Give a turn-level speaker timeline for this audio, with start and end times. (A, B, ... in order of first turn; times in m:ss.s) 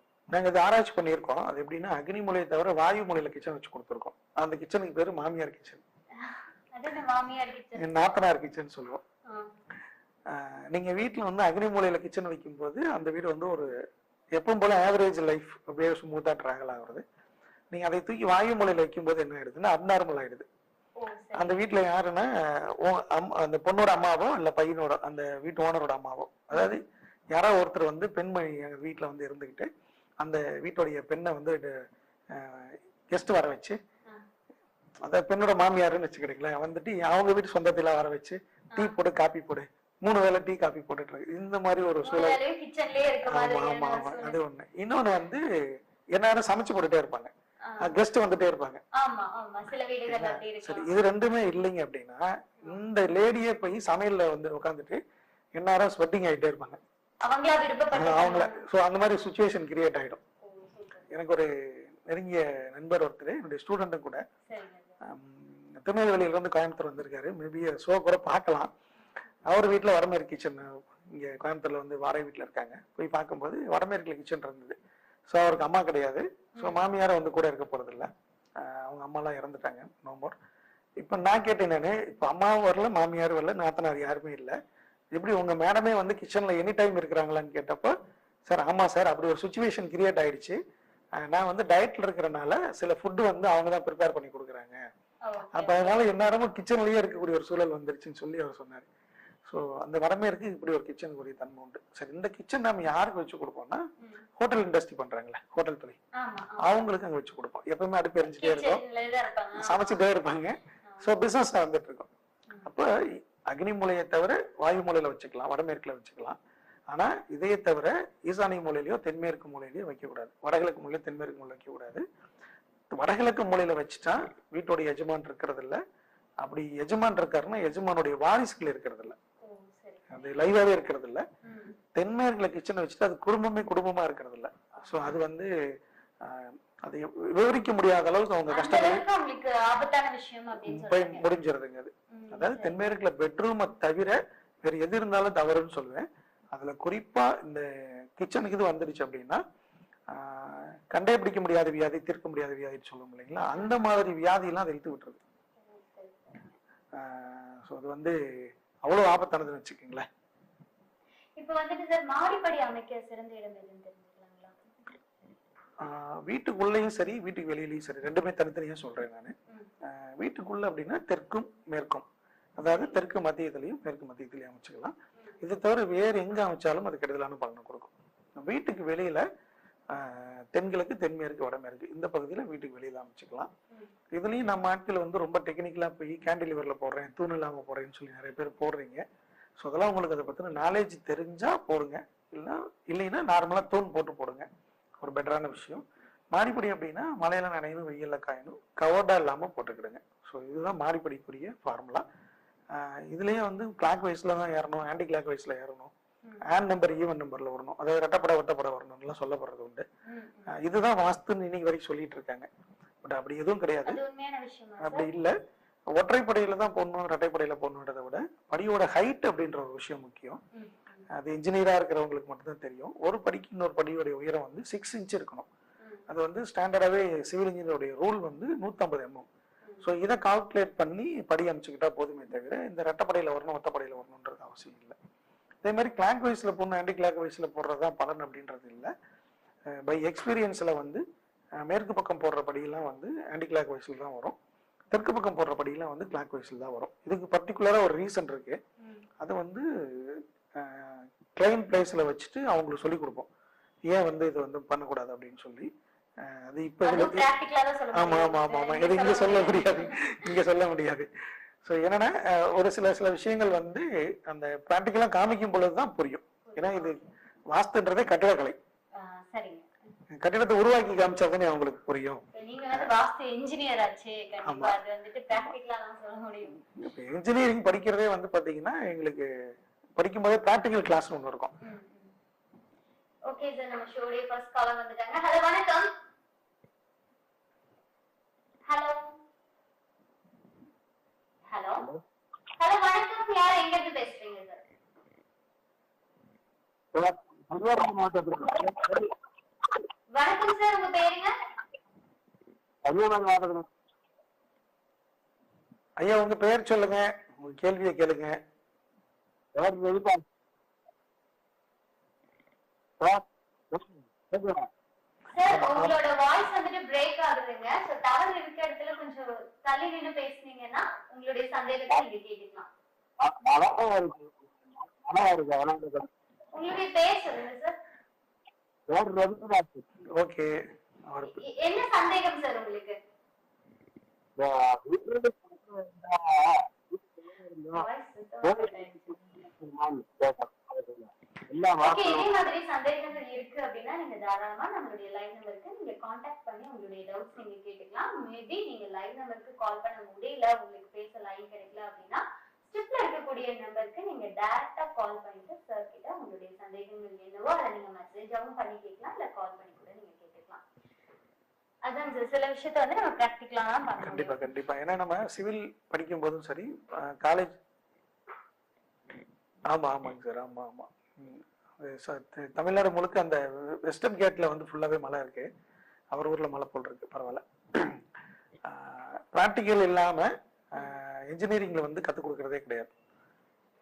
0:00.3-0:05.8 A
0:06.2-0:08.0 B
0:07.7-0:09.0 A
0:09.3-0:09.5 B
0:10.3-0:13.7 A
0:14.4-0:17.0 A
0:17.7-0:20.4 A
0:21.0-0:21.6 B
0:21.3-0:26.8 A
0:27.3-0:29.7 A
0:30.2-0:31.7 A
0:32.3-0:33.8 A
0:35.0-0:42.4 A
0:42.0-0:44.4 B
0:43.2-0:45.4 A
0:46.1-0:47.3 A
0:47.6-0:47.9 B
0:47.8-0:48.8 A
0:49.0-0:51.0 B
0:50.0-0:55.0 A
0:55.6-0:56.8 A
0:57.2-0:58.6 B
0:57.9-1:00.2 A
1:00.4-1:01.1 B
1:01.1-1:04.2 A
1:04.5-1:05.0 B
1:05.0-1:08.7 A
1:09.5-1:14.8 A
1:15.3-1:20.3 A
1:21.0-1:24.5 A
1:25.1-1:27.9 A
1:28.5-1:30.6 A
1:31.2-1:34.8 A
1:35.2-1:36.1 B
1:35.5-1:38.9 A
1:39.5-1:43.8 A
1:44.0-1:44.2 B
1:44.4-1:46.0 A
1:46.2-1:46.9 B
1:46.6-1:48.8 A
1:48.2-1:50.0 B
1:49.6-1:52.1 A
1:50.8-1:51.1 B
1:52.6-1:52.9 A
1:53.5-1:56.4 A
1:56.9-2:02.0 A
2:02.9-2:05.8 A
2:06.4-2:09.1 A
2:09.4-2:10.5 B
2:10.1-2:11.2 A
2:11.4-2:11.8 B
2:12.0-2:15.5 A
2:14.9-2:15.2 B
2:16.2-2:19.0 A
2:18.5-2:21.2 B
2:20.6-2:29.4 A
2:22.1-2:22.9 B
2:30.1-2:35.2 A
2:33.5-2:33.8 B
2:35.6-2:36.6 B
2:36.9-2:38.2 A
2:38.9-2:40.0 A
2:41.4-2:44.6 B
2:45.8-2:49.3 A
2:49.8-2:52.0 A
2:52.6-2:59.2 A
2:52.6-2:53.0 B
2:55.1-2:55.4 B
2:59.9-3:03.5 A
3:04.1-3:09.0 A
3:09.6-3:14.5 A
3:15.0-3:22.0 A
3:22.7-3:25.9 A
3:26.4-3:29.8 A
3:30.1-3:30.5 B
3:30.5-3:32.5 A
3:33.0-3:34.0 A
3:33.9-3:35.1 B
3:34.8-3:35.3 A
3:36.0-3:40.4 A
3:40.5-3:41.1 B
3:41.1-3:45.5 A
3:45.8-3:46.1 B
3:46.1-3:49.3 A
3:49.8-3:55.0 A
3:55.6-3:58.9 A
3:59.8-4:01.0 A
4:01.6-4:04.4 A
4:04.9-4:08.6 A
4:08.8-4:09.0 B
4:09.2-4:13.3 A
4:13.9-4:15.7 A
4:16.2-4:17.2 A
4:16.8-4:20.3 B
4:17.9-4:21.1 A
4:21.6-4:27.0 A
4:26.4-4:27.1 B
4:27.5-4:28.6 A
4:28.9-4:29.7 B
4:30.2-4:32.9 A
4:32.3-4:36.6 B
4:34.4-4:34.8 A
4:36.7-4:39.3 A
4:40.0-4:41.5 A
4:41.6-4:42.1 B
4:43.3-4:45.9 B
4:48.6-4:49.2 B
4:51.5-4:51.9 B
4:52.6-4:54.6 B
4:56.9-4:59.1 C
5:00.1-5:01.3 B
5:02.8-5:03.7 C
5:06.0-5:08.4 A
5:09.6-5:10.2 C
5:13.0-5:14.7 C
5:15.3-5:22.7 B
5:15.5-5:16.0 A
5:23.2-5:26.1 C
5:26.5-5:27.8 B
5:28.9-5:29.9 C
5:30.1-5:30.5 A
5:31.1-5:31.4 A
5:31.2-5:33.0 B
5:34.4-5:37.9 C
5:37.7-5:39.4 B
5:38.4-5:42.3 C
5:41.8-6:00.6 B
6:01.8-6:04.4 B
6:04.0-6:07.5 A
6:09.7-6:15.5 A
6:16.1-6:18.0 A
6:18.6-6:22.9 A